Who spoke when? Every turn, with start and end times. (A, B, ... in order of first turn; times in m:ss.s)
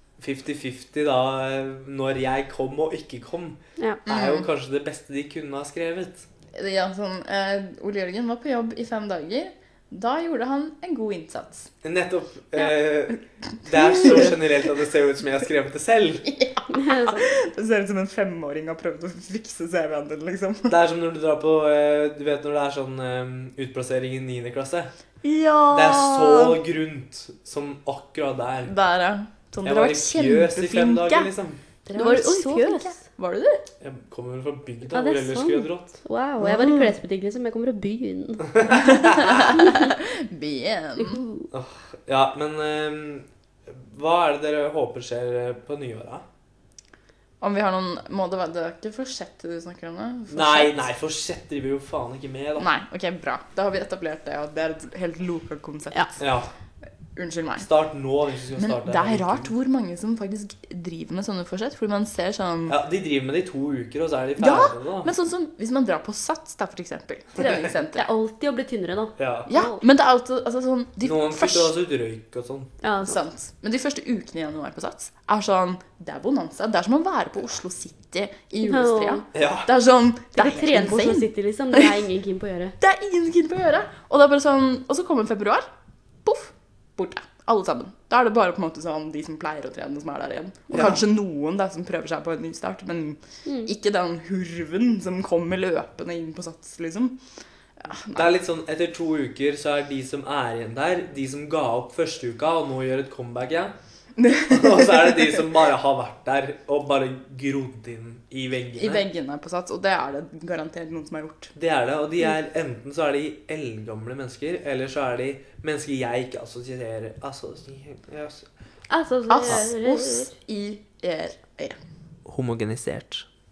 0:00.2-0:06.3 A
0:04.0-0:04.4 B
0:06.5-0:11.7 B
0:11.8-0:16.2 A
0:13.9-0:14.3 B
0:16.2-0:20.7 B
0:16.7-0:17.3 C
0:20.7-0:24.9 A
0:25.2-0:26.6 B
0:25.7-0:28.7 A
0:28.6-0:31.3 B
0:29.6-0:31.6 A
0:31.8-0:33.6 B
0:31.9-0:33.0 C
0:33.8-0:35.9 A
0:34.9-0:39.8 C
0:36.4-0:36.9 B
0:38.6-0:39.0 A
0:38.9-0:41.2 B
0:41.0-0:41.5 C
0:41.5-0:46.2 A
0:47.4-0:50.8 B
0:50.3-0:52.7 A
0:52.6-0:56.2 B
0:56.2-0:56.5 A
0:57.1-0:57.7 B
0:57.6-0:59.5 A
0:58.6-1:02.8 B
1:02.7-1:05.1 A
1:04.4-1:08.0 B
1:07.4-1:09.8 C
1:09.2-1:09.5 A
1:09.5-1:11.7 B
1:11.0-1:12.7 A
1:12.8-1:13.2 C
1:13.0-1:21.9 B
1:18.6-1:19.2 C
1:19.3-1:19.7 A
1:20.3-1:22.7 C
1:22.8-1:25.7 B
1:26.2-1:37.2 B
1:37.8-1:38.3 B
1:38.1-1:43.7 A
1:44.2-1:45.3 B
1:44.5-1:49.0 A
1:48.8-1:51.5 B
1:51.5-1:58.5 A
1:58.9-2:00.3 C
1:59.3-2:01.8 B
2:02.2-2:03.3 A